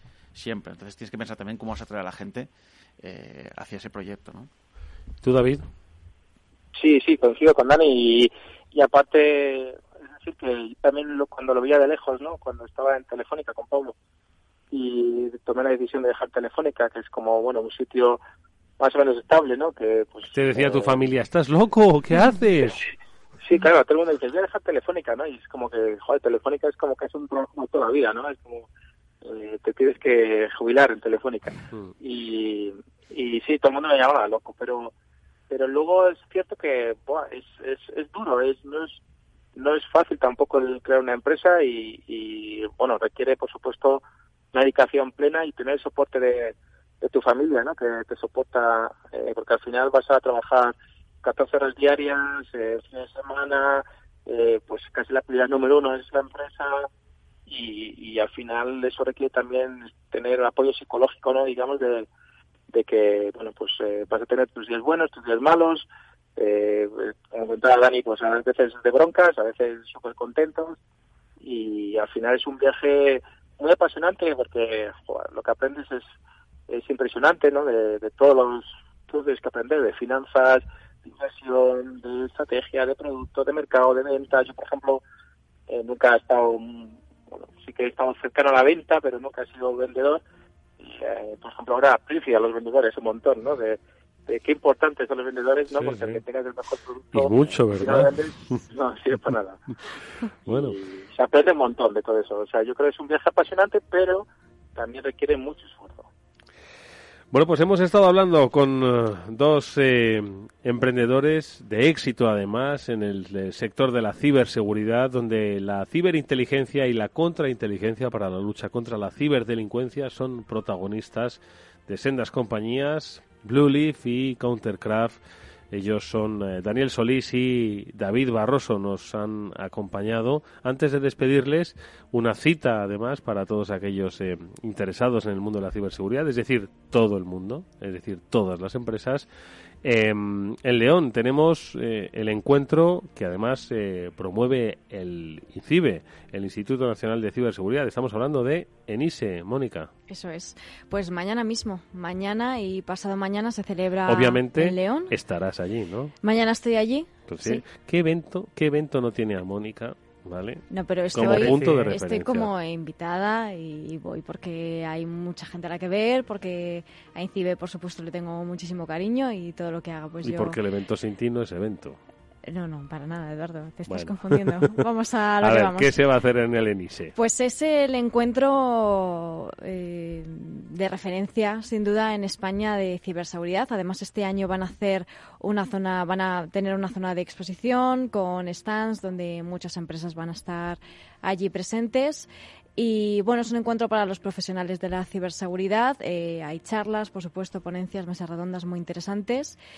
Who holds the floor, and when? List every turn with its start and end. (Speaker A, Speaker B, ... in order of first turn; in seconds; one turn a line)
Speaker A: 0.3-2.5
Speaker A: 3.0-4.5
Speaker B: 5.2-5.7
Speaker C: 6.8-13.9
Speaker C: 14.7-18.2
Speaker C: 18.8-21.0
Speaker B: 20.3-22.8
Speaker C: 23.4-28.7
Speaker C: 29.2-34.9
Speaker C: 35.5-39.0
Speaker C: 39.5-44.0
Speaker C: 44.5-56.9
Speaker C: 57.5-62.1
Speaker C: 62.7-70.8
Speaker C: 71.4-76.0
Speaker C: 76.7-85.0
Speaker C: 85.7-90.2
Speaker C: 90.8-99.6
Speaker B: 95.7-96.2
Speaker B: 97.1-98.6
Speaker B: 100.5-100.8
Speaker C: 100.5-106.1
Speaker B: 107.3-125.2
Speaker B: 125.7-139.3
Speaker B: 139.8-149.9
Speaker D: 150.1-155.1
Speaker B: 154.1-156.1
Speaker D: 156.2-157.6
Speaker B: 157.3-162.5
Speaker D: 160.7-170.6
Speaker B: 170.2-172.0
Speaker D: 172.4-175.9
Speaker B: 173.9-174.5
Speaker B: 175.4-177.2
Speaker D: 177.2-199.6